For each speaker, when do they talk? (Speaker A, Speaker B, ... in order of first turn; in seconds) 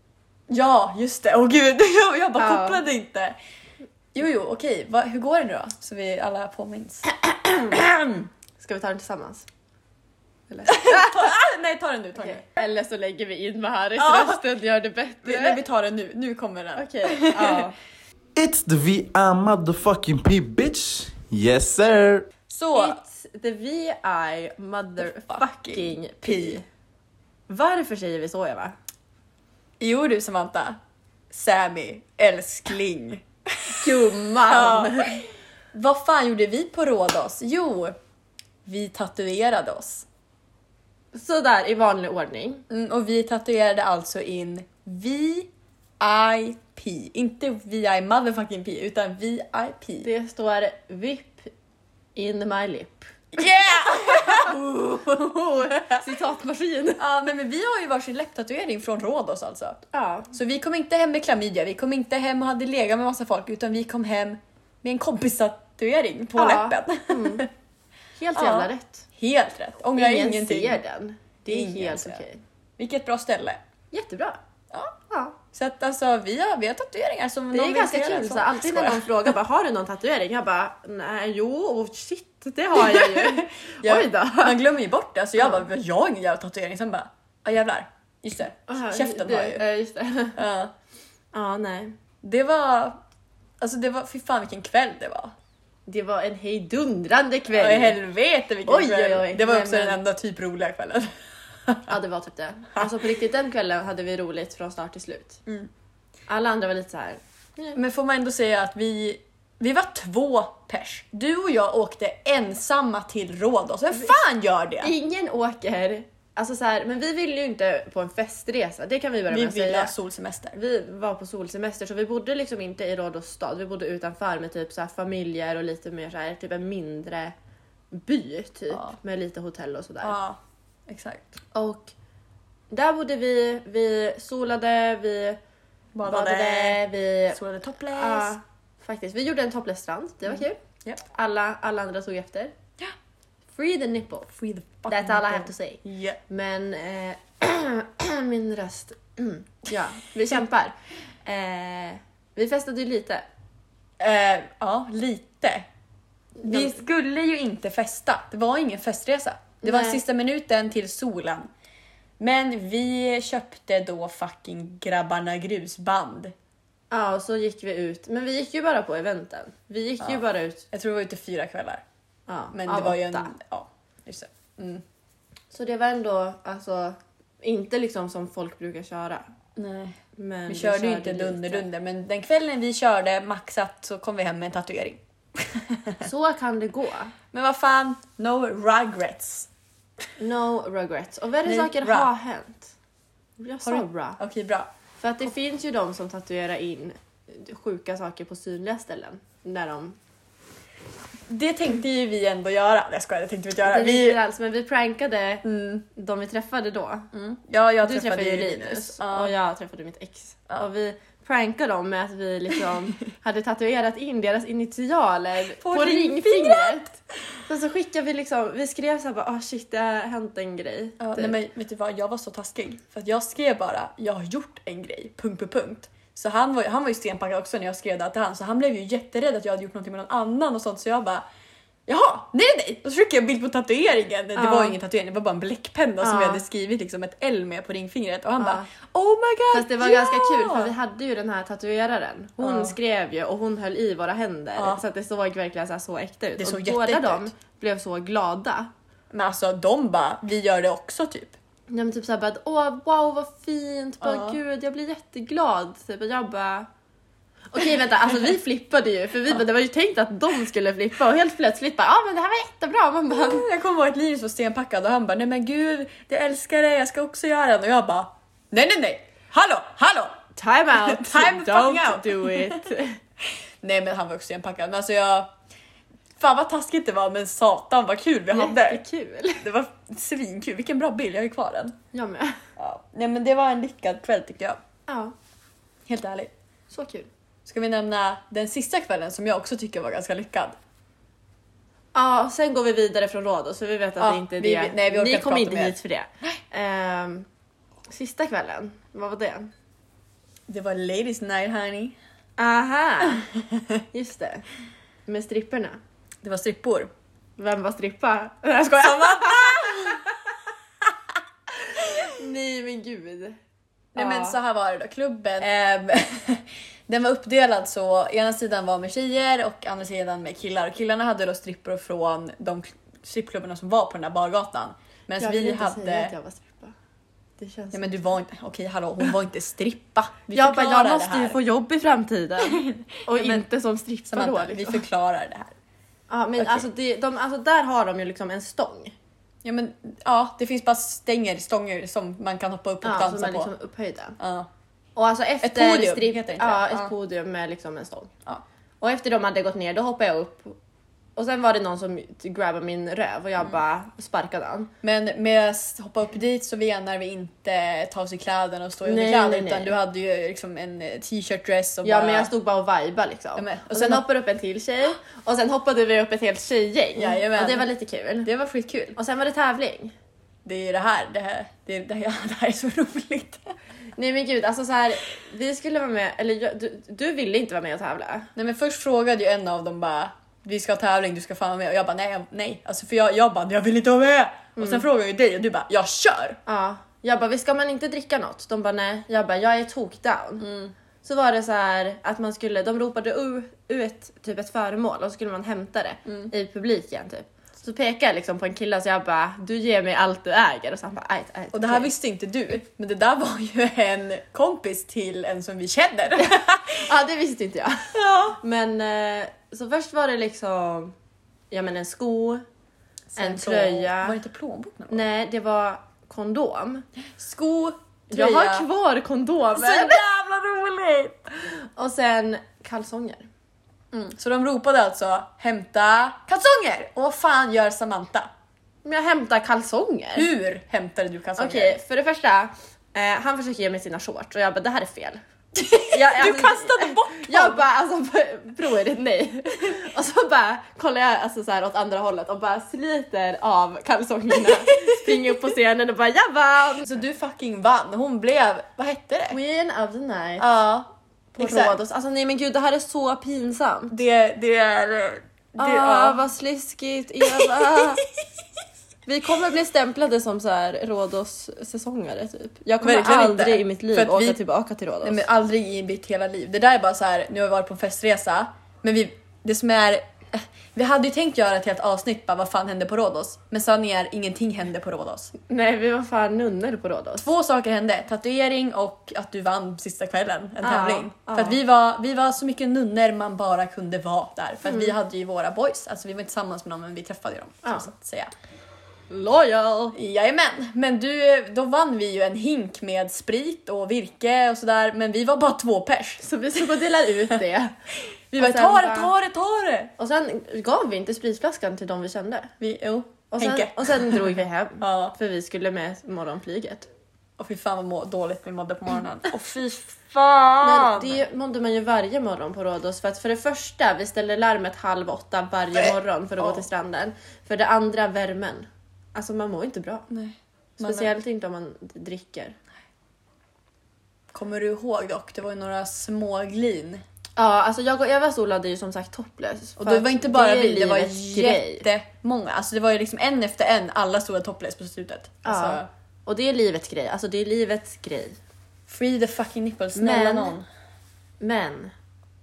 Speaker A: 0.5-3.4, 4.2-8.3, 10.7-12.5, 14.0-14.4, 15.2-17.7, 22.5-23.0, 25.0-26.6, 29.8-30.8, 31.3-33.9, 34.5-35.2, 35.7-38.0, 38.6-40.1, 42.7-50.1, 53.3-56.1, 57.0-59.8, 60.3-67.5, 68.4-70.8, 71.5-72.2, 72.8-73.6, 75.5-79.1, 82.8-89.6, 90.4-90.7, 92.2-93.0, 93.6-95.3, 97.5-101.1, 101.7-101.9, 107.7-114.9, 119.3-120.5, 128.7-129.0, 130.0-131.3, 135.9-136.8, 137.3-138.3, 140.3-141.0, 144.3-146.2, 154.0-155.7, 156.4-161.5, 162.2-166.3, 170.0-171.8, 172.5-174.8, 179.6-186.1, 187.3-189.5, 191.4-192.1, 193.6-194.7, 201.3-204.2, 205.4-205.8, 207.1-209.3, 215.6-216.8, 221.0-231.2, 231.9-240.7, 242.4-242.8, 246.4-247.3, 249.1-251.4, 254.0-254.4, 263.1-270.2, 270.9-272.7, 273.6-275.3, 276.2-278.8, 279.4-281.8, 282.6-284.6, 285.9-286.3, 287.5-290.6, 294.0-296.4, 300.5-302.0, 303.3-303.8, 306.2-306.9, 308.6-310.0, 313.9-326.1, 327.7-331.4, 332.4-333.4, 334.1-335.5, 336.4-336.7, 339.4-343.5, 344.2-344.5, 345.4-346.9, 354.8-362.3, 363.4-364.0, 367.0-367.7, 368.2-369.0, 370.4-373.4, 378.4-386.4, 390.4-390.7, 396.1-396.3, 401.5-406.9, 407.9-408.4, 413.1-415.0, 417.2-418.7, 419.6-421.3, 423.9-428.3, 430.2-431.8, 435.6-437.6, 444.6-445.4, 446.9-449.4, 450.4-451.8, 453.9-456.2, 457.3-457.8, 462.8-464.4, 465.0-475.3, 477.2-488.3, 489.9-496.2, 498.3-499.9, 502.6-505.1, 507.4-511.2, 515.8-516.6, 520.1-521.1, 524.3-527.0, 529.8-535.9, 538.9-540.7
Speaker B: 2.4-2.8, 8.6-9.5, 10.5-11.4, 12.2-15.6, 16.8-17.7, 22.8-26.6, 27.5-28.8, 33.7-35.2, 41.1-42.6, 50.0-51.5, 52.1-53.1, 53.9-57.0, 59.9-60.3, 66.3-67.4, 68.2-69.0, 70.0-72.4, 73.9-74.4, 75.1-75.3, 77.5-84.6, 85.4-85.6, 88.7-90.4, 91.3-92.0, 95.9-98.0, 98.7-100.0, 101.9-105.4, 106.3-107.8, 114.8-119.9, 120.5-127.3, 127.9-130.2, 131.5-131.9, 132.7-135.4, 136.1-137.4, 138.0-140.6, 141.1-142.5, 143.6-144.3, 144.9-150.7, 151.2-153.2, 156.4-156.8, 159.6-160.0, 166.9-170.6, 172.3-173.3, 175.5-179.2, 180.2-181.7, 186.0-187.1, 190.2-192.7, 193.4-194.2, 195.0-200.0, 203.7-207.1, 207.8-216.9, 217.5-221.4, 234.4-234.8, 236.0-236.4, 238.4-238.7, 239.5-248.7, 251.7-256.7, 257.5-263.5, 270.4-273.0, 278.3-279.4, 281.9-282.4, 284.9-285.1, 286.7-287.1, 291.9-297.3, 297.9-299.5, 302.4-303.3, 303.9-304.4, 305.1-305.8, 307.4-310.1, 311.6-313.4, 314.0-314.4, 325.2-326.7, 327.4-327.9, 330.3-334.8, 336.1-338.9, 342.8-344.2, 345.0-348.1, 348.8-350.6, 351.2-354.7, 358.9-359.7, 361.8-368.3, 369.0-369.9, 374.0-378.3, 384.6-384.9, 386.5-390.5, 391.0-401.9, 406.7-410.9, 411.5-412.4, 413.2-414.2, 414.9-416.9, 418.1-420.0, 421.8-423.3, 428.8-430.3, 431.4-435.2, 435.9-446.9, 449.3-450.5, 451.4-454.0, 455.6-458.0, 459.1-465.2, 475.5-477.3, 480.6-481.6, 489.1-490.0, 496.2-497.7, 498.4-499.1, 500.0-502.5, 503.3-506.9, 510.6-520.1, 520.8-522.6, 527.4-531.9, 535.5-538.4, 540.0-540.5, 541.4-541.9
Speaker C: 18.4-22.3